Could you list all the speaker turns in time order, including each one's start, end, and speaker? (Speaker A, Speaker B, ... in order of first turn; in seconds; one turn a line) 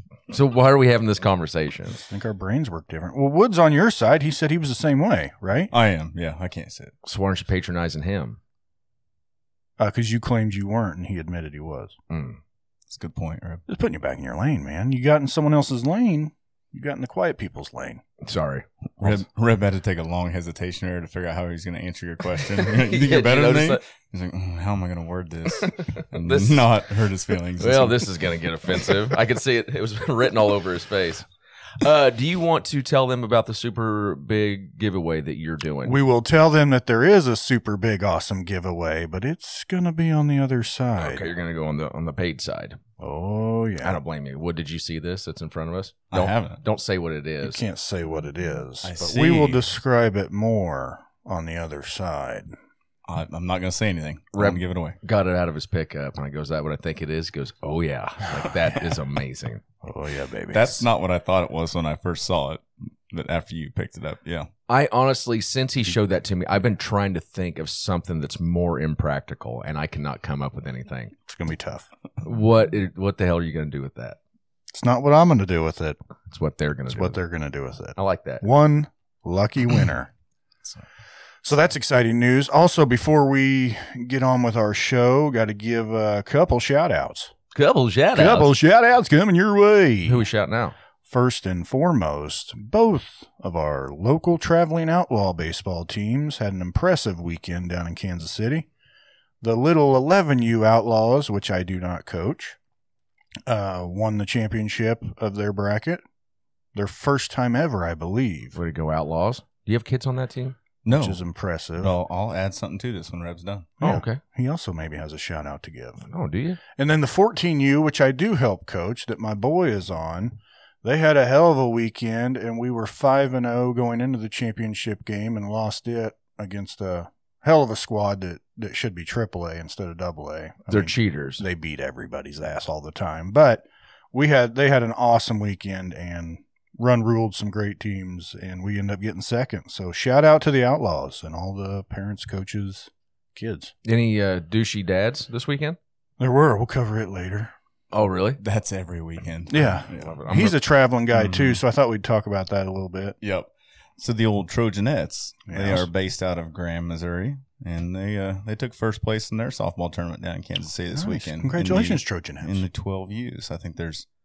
Speaker A: 0.3-2.0
Speaker B: 2.0-5.7
Speaker C: 5.7-6.9
Speaker A: 7.0-8.4
Speaker B: 9.8-12.0
Speaker A: 12.1-12.4
Speaker C: 12.9-13.6
Speaker B: 13.7-18.0
Speaker A: 18.2-19.2
Speaker C: 19.0-28.1
Speaker A: 22.7-23.8
Speaker A: 25.6-26.7
Speaker A: 27.6-31.3
Speaker A: 31.8-36.0
Speaker B: 35.8-41.2
Speaker A: 41.0-42.8
Speaker B: 43.0-44.0
Speaker A: 43.8-47.6
Speaker C: 46.1-46.6
Speaker B: 47.4-52.5
Speaker C: 48.8-49.7
Speaker C: 53.1-55.0
Speaker A: 54.3-59.6
Speaker B: 59.8-60.9
Speaker C: 60.5-64.5
Speaker A: 64.7-71.1
Speaker B: 71.3-71.9
Speaker A: 72.2-74.2
Speaker B: 74.7-76.0
Speaker A: 76.3-77.2
Speaker B: 76.9-80.1
Speaker A: 78.0-78.4
Speaker B: 81.4-87.3
Speaker A: 87.5-88.5
Speaker B: 88.1-90.2
Speaker A: 90.1-90.8
Speaker B: 91.1-98.7
Speaker B: 99.4-102.6
Speaker B: 103.5-106.0
Speaker B: 106.8-108.6
Speaker A: 108.5-110.6
Speaker C: 110.8-111.2
Speaker B: 110.9-111.9
Speaker C: 111.8-113.7
Speaker B: 113.8-116.0
Speaker A: 113.8-114.2
Speaker A: 116.1-116.6
Speaker B: 116.8-143.7
Speaker A: 130.7-131.4
Speaker A: 143.8-145.8
Speaker B: 146.2-147.5
Speaker A: 147.9-148.4
Speaker C: 148.4-150.2
Speaker B: 149.5-153.2
Speaker A: 149.9-150.6
Speaker C: 151.1-151.6
Speaker C: 153.2-164.1
Speaker B: 155.5-155.9
Speaker B: 160.9-162.6